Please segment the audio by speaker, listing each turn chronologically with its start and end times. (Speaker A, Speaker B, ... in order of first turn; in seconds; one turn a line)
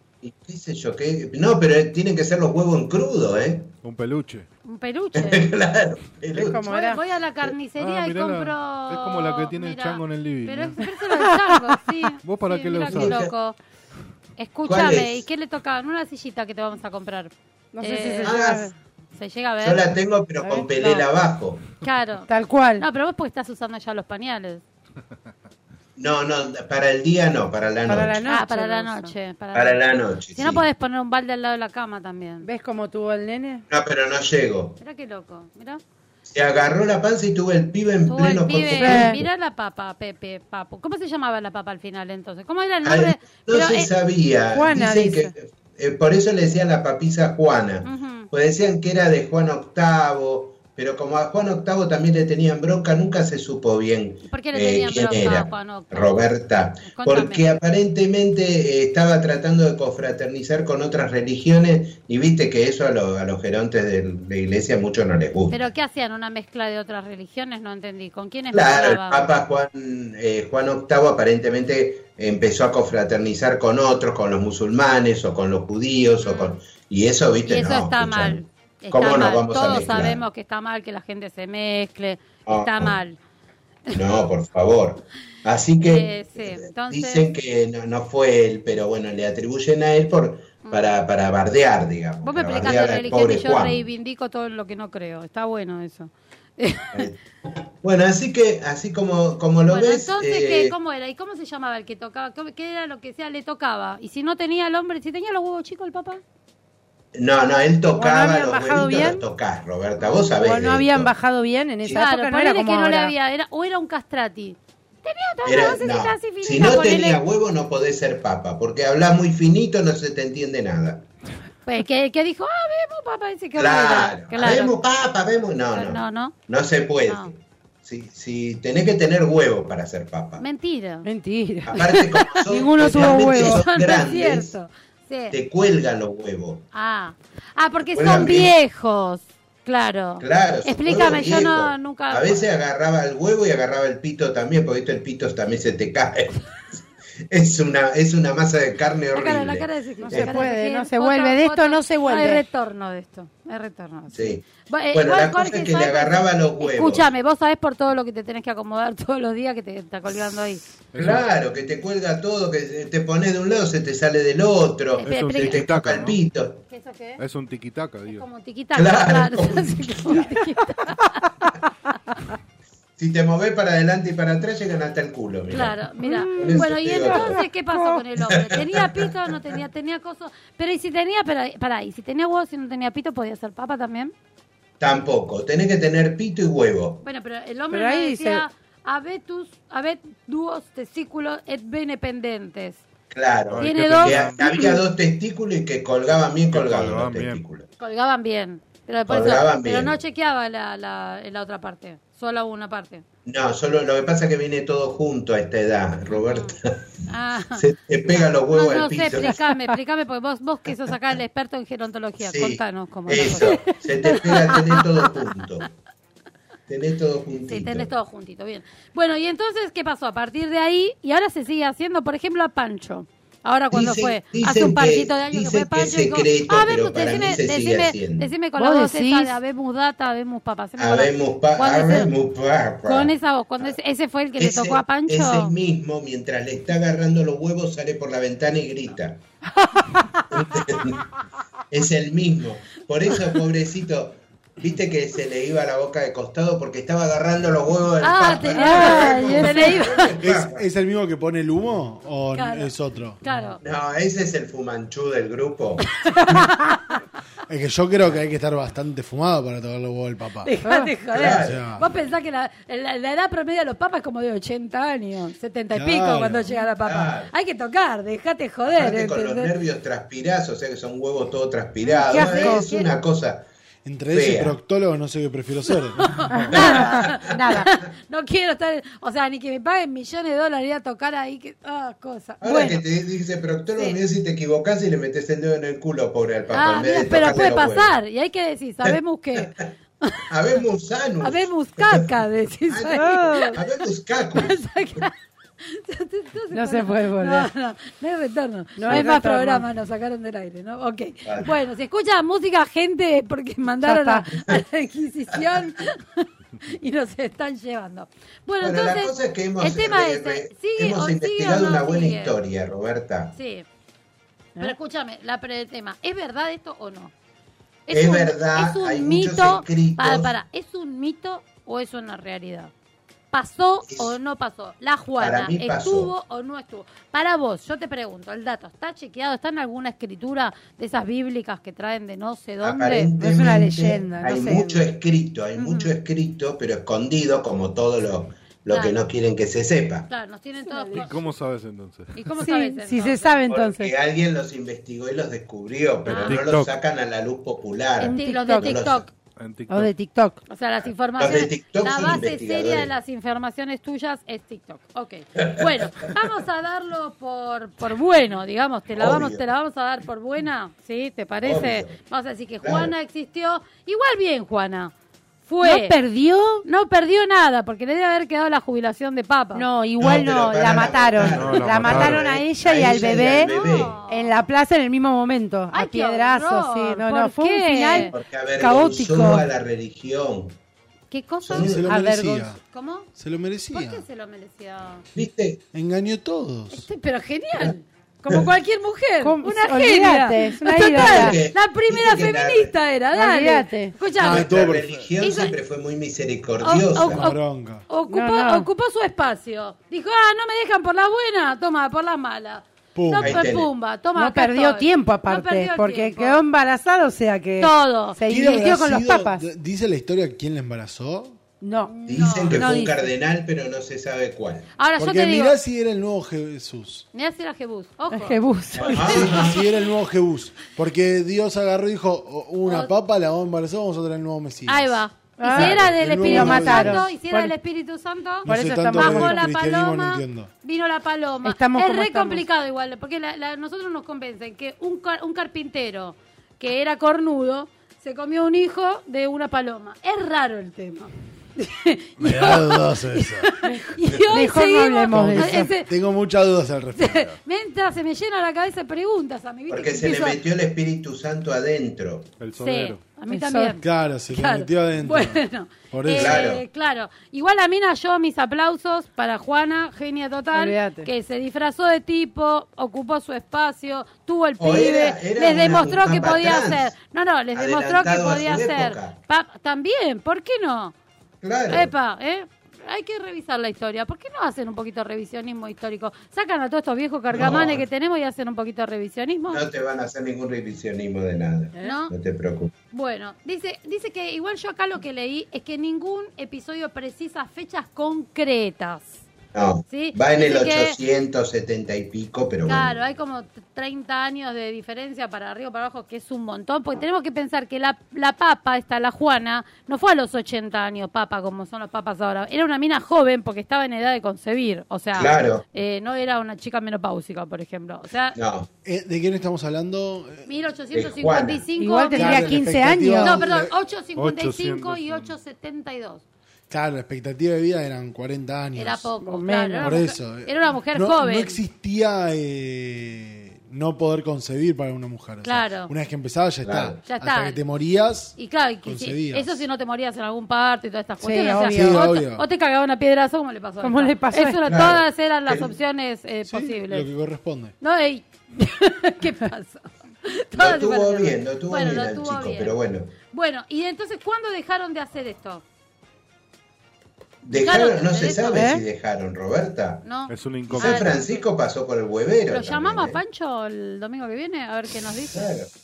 Speaker A: 0.2-3.7
Speaker B: 3.8-4.5
Speaker C: 4.6-5.5
Speaker A: 5.1-6.9
Speaker D: 6.3-7.0
Speaker C: 6.6-13.6
Speaker B: 7.8-10.9
Speaker B: 12.2-13.2
Speaker A: 12.8-13.3
Speaker C: 14.4-18.4
Speaker A: 14.6-15.2
Speaker D: 17.7-18.7
Speaker A: 18.2-18.7
Speaker C: 19.1-19.9
Speaker A: 19.6-21.7
Speaker D: 20.4-21.0
Speaker C: 21.8-24.6
Speaker D: 22.3-22.8
Speaker A: 26.0-28.2
Speaker D: 27.9-29.1
Speaker C: 28.3-32.5
Speaker A: 29.5-30.6
Speaker D: 32.4-33.6
Speaker A: 33.7-34.8
Speaker C: 34.8-35.8
Speaker A: 36.2-39.3
Speaker C: 38.1-43.9
Speaker D: 38.8-39.2
Speaker A: 42.8-65.7
Speaker D: 44.5-45.3
Speaker C: 47.8-48.3
Speaker C: 54.3-56.3
Speaker C: 56.8-57.4
Speaker C: 65.5-69.3
Speaker A: 68.5-80.2
Speaker C: 76.2-76.5
Speaker C: 77.5-83.2
Speaker A: 82.5-83.0
Speaker A: 83.9-93.8
Speaker C: 85.8-87.2
Speaker C: 90.6-91.0
Speaker C: 92.2-97.1
Speaker A: 96.9-97.2
Speaker A: 97.8-100.7
Speaker C: 99.7-106.2
Speaker A: 107.1-111.1
Speaker D: 108.0-109.2
Speaker D: 110.3-113.1
Speaker C: 111.9-117.2
Speaker A: 115.4-121.0
Speaker C: 121.7-124.7
Speaker A: 123.5-130.4
Speaker C: 125.7-126.3
Speaker C: 127.0-127.3
Speaker C: 130.4-131.1
Speaker D: 131.0-133.6
Speaker A: 131.7-134.6
Speaker C: 132.0-135.4
Speaker A: 135.3-136.7
Speaker C: 136.7-142.4
Speaker A: 137.9-138.5
Speaker A: 140.2-150.5
Speaker C: 149.1-160.6
Speaker D: 150.0-152.4
Speaker A: 154.1-157.1
Speaker B: 160.9-161.3
Speaker A: 160.9-166.6
Speaker C: 165.0-165.6
Speaker B: 165.0-166.2
Speaker C: 166.7-167.2
Speaker B: 167.2-168.2
Speaker C: 168.1-171.3
Speaker A: 168.7-170.5
Speaker A: 173.0-177.4
Speaker C: 175.5-184.1
Speaker D: 176.0-178.0
Speaker A: 178.2-179.3
Speaker A: 184.8-187.0
Speaker C: 187.0-192.8
Speaker D: 187.7-188.4
Speaker A: 193.1-197.7
Speaker B: 193.5-194.4
Speaker C: 193.6-194.8
Speaker B: 196.5-197.4
Speaker C: 197.8-203.0
Speaker A: 199.1-199.9
Speaker A: 203.2-206.8
Speaker C: 206.1-213.5
Speaker A: 207.5-209.4
Speaker A: 212.2-215.7
Speaker D: 213.4-214.8
Speaker A: 216.7-217.9
Speaker C: 217.5-232.1
Speaker A: 223.7-228.3
Speaker D: 228.6-229.3
Speaker A: 230.8-233.7
Speaker C: 232.8-235.5
Speaker A: 234.4-239.2
Speaker D: 239.6-240.2
Speaker A: 240.3-241.1
Speaker A: 241.7-250.6
Speaker C: 248.0-250.1
Speaker D: 248.6-250.0
Speaker E: 250.2-253.5
Speaker C: 252.3-252.7
Speaker C: 253.2-253.6
Speaker A: 253.6-255.9
Speaker C: 256.0-256.5
Speaker E: 257.5-260.5
Speaker C: 260.4-269.5
Speaker D: 260.6-260.9
Speaker A: 261.1-261.7
Speaker E: 261.2-261.9
Speaker E: 265.7-266.5
Speaker A: 266.8-267.3
Speaker A: 268.6-273.5
Speaker D: 271.8-272.6
Speaker C: 272.1-272.9
Speaker E: 273.8-276.2
Speaker A: 274.1-274.6
Speaker C: 276.0-282.8
Speaker D: 276.3-277.7
Speaker A: 276.5-277.2
Speaker A: 282.4-288.0
Speaker C: 286.5-290.2
Speaker A: 288.8-289.6
Speaker A: 290.3-292.1
Speaker C: 291.2-293.6
Speaker A: 292.7-295.0
Speaker D: 293.0-293.5
Speaker C: 294.3-312.4
Speaker D: 296.5-297.5
Speaker D: 298.8-299.6
Speaker A: 301.2-301.6
Speaker D: 303.8-304.3
Speaker A: 308.6-313.3
Speaker C: 313.3-313.6
Speaker C: 314.6-317.1
Speaker C: 317.9-322.7
Speaker A: 317.9-320.3
Speaker C: 323.3-333.1
Speaker A: 323.9-324.1
Speaker A: 325.2-326.1
Speaker A: 332.6-340.1
Speaker D: 333.2-334.8
Speaker C: 335.6-335.9
Speaker C: 338.7-338.9
Speaker C: 340.1-341.1
Speaker D: 340.6-341.1
Speaker B: 340.9-342.4
Speaker C: 342.1-343.4
Speaker D: 342.4-343.9
Speaker A: 343.5-349.1
Speaker B: 346.1-346.7
Speaker C: 346.1-346.4
Speaker C: 348.0-349.1
Speaker D: 348.0-348.8
Speaker B: 349.4-349.9
Speaker D: 349.7-350.4
Speaker C: 350.5-364.9
Speaker A: 351.2-352.9
Speaker A: 355.4-356.2
Speaker A: 358.9-359.4
Speaker A: 361.4-362.0
Speaker A: 362.6-362.9
Speaker C: 365.4-365.9
Speaker D: 365.6-366.6
Speaker C: 366.6-369.6
Speaker D: 369.5-373.5
Speaker A: 370.0-374.0
Speaker B: 371.2-372.4
Speaker C: 372.7-374.4
Speaker D: 374.1-379.4
Speaker C: 375.7-378.1
Speaker A: 377.9-380.6
Speaker C: 381.1-381.7
Speaker A: 381.4-381.8
Speaker E: 381.5-382.6
Speaker D: 381.9-382.5
Speaker C: 382.7-383.1
Speaker E: 383.1-384.0
Speaker C: 383.7-385.0
Speaker A: 385.1-385.6
Speaker E: 385.7-386.9
Speaker C: 386.7-394.5
Speaker D: 389.2-391.4
Speaker A: 390.8-392.7
Speaker D: 393.1-393.9
Speaker A: 394.2-397.3
Speaker E: 394.2-394.9
Speaker C: 395.2-395.6
Speaker C: 396.6-406.4
Speaker E: 397.0-397.9
Speaker D: 398.1-398.7
Speaker E: 402.9-403.6
Speaker A: 403.2-403.7
Speaker D: 404.1-409.4
Speaker C: 407.6-408.2
Speaker E: 408.2-411.4
Speaker D: 411.6-411.9
Speaker C: 411.9-413.0
Speaker A: 412.1-414.7
Speaker D: 412.5-413.0
Speaker C: 414.8-415.6
Speaker E: 415.0-417.1
Speaker C: 417.1-419.6
Speaker D: 418.1-419.3
Speaker A: 418.7-419.7
Speaker E: 419.1-427.1
Speaker C: 422.6-422.9
Speaker C: 424.6-445.9
Speaker D: 425.4-427.5
Speaker E: 428.4-430.5
Speaker D: 428.4-429.4
Speaker D: 431.4-432.4
Speaker E: 442.2-443.6
Speaker D: 444.3-445.7
Speaker E: 445.1-447.3
Speaker C: 446.9-450.4
Speaker A: 449.7-452.3
Speaker B: 452.4-453.2
Speaker C: 452.5-470.9
Speaker D: 453.3-453.8
Speaker E: 453.8-456.4
Speaker A: 456.1-456.6
Speaker D: 460.5-461.1
Speaker A: 464.6-466.9
Speaker A: 467.5-469.2
Speaker A: 471.4-471.9
Speaker C: 471.7-479.6
Speaker A: 477.3-477.8
Speaker A: 479.5-482.7
Speaker C: 481.8-482.1
Speaker C: 482.9-489.2
Speaker A: 489.5-493.0
Speaker C: 489.9-491.0
Speaker C: 492.6-508.4
Speaker A: 505.1-505.6
Speaker A: 508.4-508.7
Speaker E: 508.8-510.9
Speaker C: 510.4-512.7
Speaker A: 510.9-511.7
Speaker D: 511.8-513.4
Speaker E: 512.1-513.7
Speaker C: 513.2-516.2
Speaker B: 514.1-515.3
Speaker E: 516.7-519.1
Speaker C: 518.8-521.6
Speaker D: 519.2-520.0
Speaker E: 519.8-529.7
Speaker C: 525.4-525.9
Speaker A: 526.6-527.0
Speaker C: 527.0-527.6
Speaker C: 528.4-537.1
Speaker D: 531.2-532.1
Speaker E: 531.7-532.5
Speaker D: 533.8-534.6
Speaker A: 534.6-535.7
Speaker E: 536.5-537.7
Speaker C: 537.8-542.7
Speaker A: 540.5-543.1
Speaker C: 543.3-545.6
Speaker A: 547.4-550.0
Speaker C: 547.5-548.6
Speaker D: 548.5-548.8
Speaker C: 550.0-551.4
Speaker B: 550.3-551.1
Speaker A: 550.7-553.2
Speaker C: 552.5-555.5
Speaker A: 555.3-555.7